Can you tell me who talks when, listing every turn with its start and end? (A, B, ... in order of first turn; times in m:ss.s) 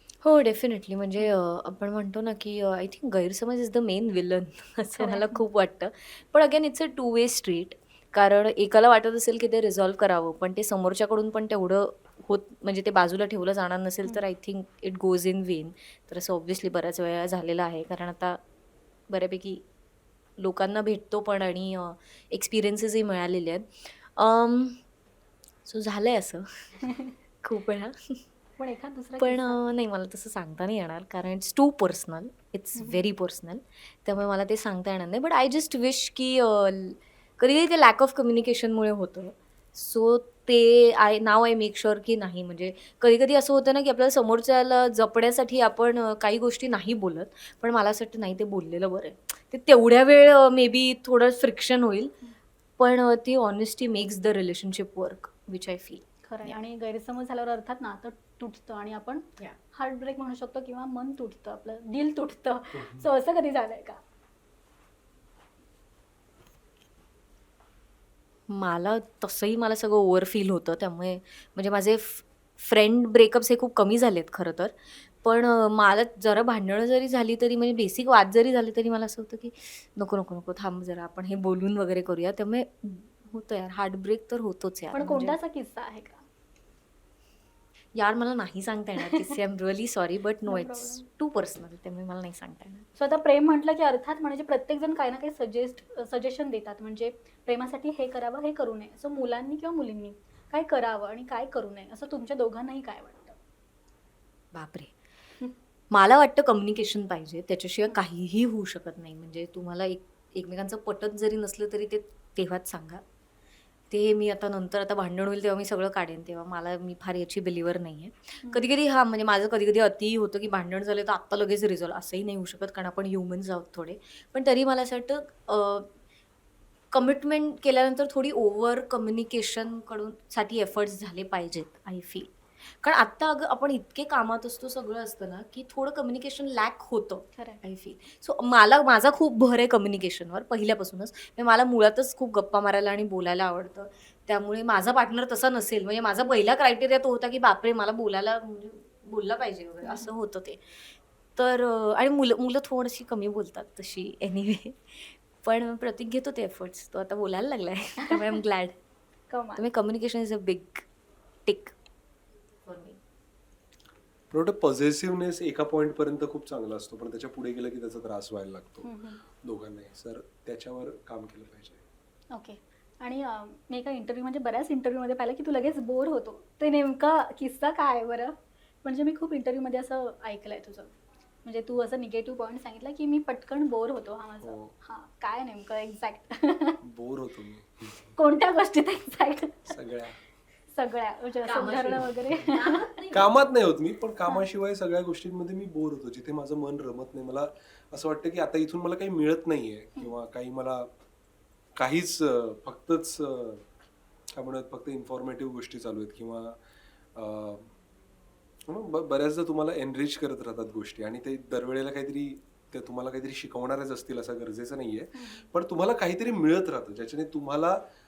0:00.2-0:18.4 A
0:05.0-0:05.4 B
0:19.1-0:19.6 A
0:20.4-0:24.8 A
0:25.6-0:26.8 A
0:27.4-0:27.9 A
0:28.6-0:29.6 B
0:29.2-0:52.1 A
0:32.8-0:33.1 B
0:52.8-0:56.6 A
0:56.3-1:04.0 B
1:08.5-1:25.4 A
1:24.9-1:26.2 B
1:28.0-1:32.9 A
1:30.4-1:31.1 B
1:33.0-1:43.4 B
1:44.5-1:44.9 A
1:45.9-1:53.0 A
1:53.9-2:05.9 A
2:06.9-2:38.7 A
2:39.3-2:39.7 B
2:39.6-2:40.9 A
2:41.5-2:41.7 A
2:42.7-2:43.0 A
2:44.3-2:48.9 C
2:48.8-2:49.2 B
2:49.4-2:51.8 C
2:52.3-3:06.8 B
3:04.4-3:04.7 C
3:06.8-3:07.9 C
3:08.2-3:09.8 B
3:09.7-3:10.2 C
3:10.7-3:13.0 B
3:11.4-3:13.3 A
3:13.1-3:20.9 C
3:21.8-3:23.6 C
3:24.4-3:26.6 C
3:27.2-3:27.7 C
3:28.7-3:37.8 C
3:35.2-3:35.5 B